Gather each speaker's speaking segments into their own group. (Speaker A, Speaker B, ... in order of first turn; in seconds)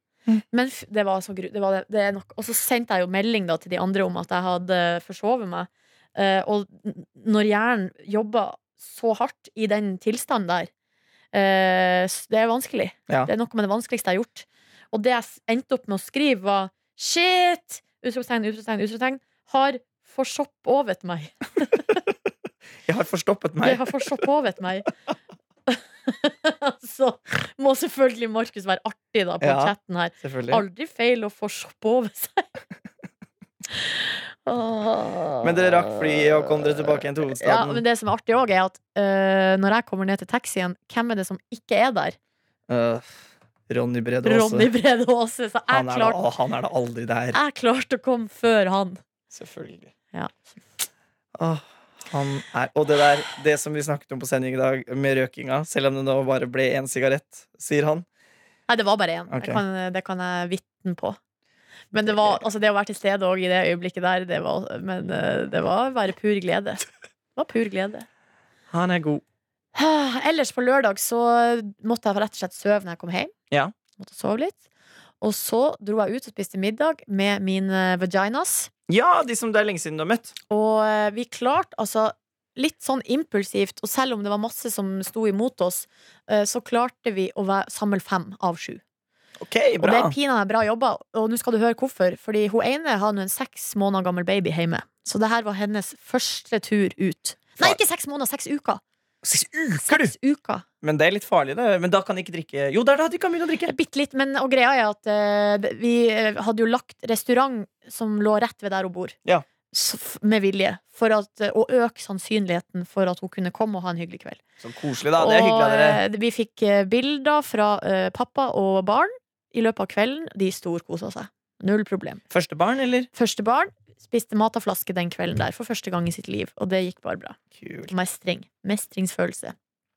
Speaker A: 0.5-10.7, 11.3-22.0, 23.6-24.9, 25.7-32.5, 33.7-42.1, 44.2-46.2, 47.3-49.0, 50.1-50.6, 58.7-61.2, 61.9-66.8, 67.3-68.0, 69.7-73.3, 74.0-74.6, 75.2-78.7, 80.5-88.8, 89.8-98.8, 99.8-100.7, 103.7-109.2, 109.7-114.4, 115.2-122.2, 123.1-129.5
Speaker B: 22.9-24.2, 29.4-30.6, 35.4-37.8, 42.7-43.1, 43.7-44.7, 45.7-47.4, 49.3-49.9, 51.4-58.0, 59.3-59.6, 68.7-69.2, 78.9-80.3, 89.4-90.1, 99.2-100.1, 100.8-103.7, 114.6-116.0, 122.3-123.1, 127.5-127.9